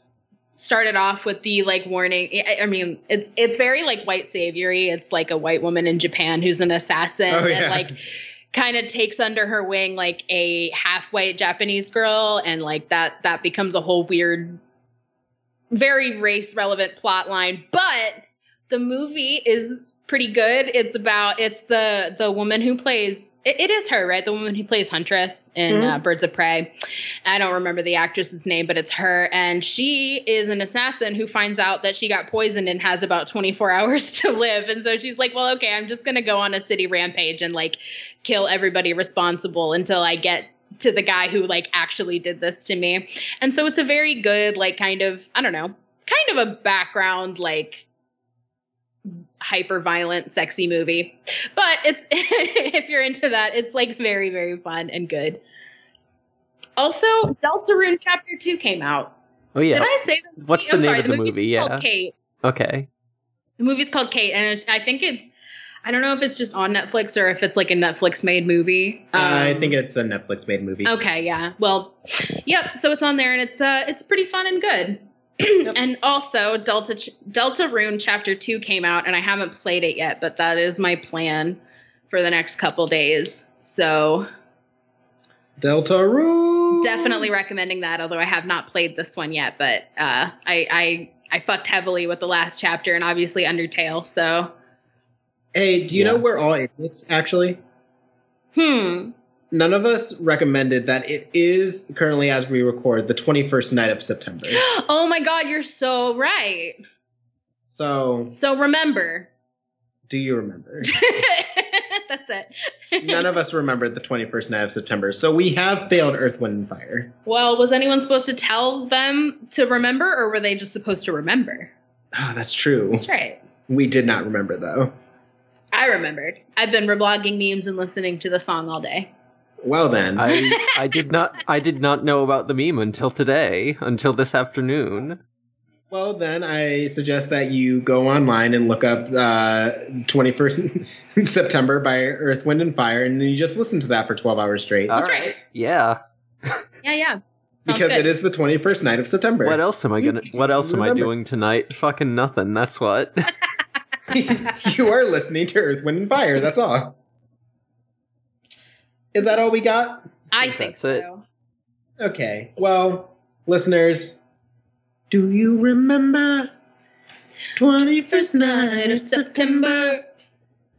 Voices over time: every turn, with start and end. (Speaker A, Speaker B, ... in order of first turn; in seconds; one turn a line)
Speaker A: 0.5-8.0
Speaker B: 7.3-8.0
Speaker A: 8.5-14.6
Speaker A: 15.7-47.9
Speaker B: 25.7-26.0
Speaker A: 49.1-55.4
Speaker A: 56.8-59.1
Speaker C: 59.5-61.8
Speaker A: 59.7-62.1
Speaker C: 62.4-62.9
Speaker A: 63.6-65.3
Speaker A: 65.8-69.8
Speaker B: 69.1-70.9
Speaker A: 70.8-84.3
Speaker B: 85.6-87.3
Speaker A: 86.8-94.5
Speaker B: 95.5-97.6
Speaker C: 95.9-96.2
Speaker A: 98.5-99.1
Speaker B: 99.5-104.6
Speaker A: 104.5-106.8
Speaker B: 107.7-108.3
Speaker A: 108.3-109.3
Speaker B: 110.1-110.9
Speaker A: 110.8-113.3
Speaker B: 113.0-117.1
Speaker A: 117.2-121.7
Speaker B: 122.1-123.0
Speaker A: 123.0-123.4
Speaker B: 123.7-124.9
Speaker A: 125.7-129.1
Speaker B: 129.6-130.5
Speaker C: 130.2-135.2
Speaker A: 130.3-130.7
Speaker B: 135.9-145.0
Speaker C: 144.9-146.6
Speaker A: 144.9-145.4
Speaker A: 146.8-148.1
Speaker B: 147.7-149.6
Speaker C: 149.4-153.3
Speaker B: 150.3-151.1
Speaker B: 154.1-157.0
Speaker B: 159.1-160.1
Speaker A: 160.3-161.2
Speaker C: 160.4-161.0
Speaker B: 162.0-164.2
Speaker B: 165.1-166.5
Speaker B: 167.6-170.0
Speaker A: 168.1-170.0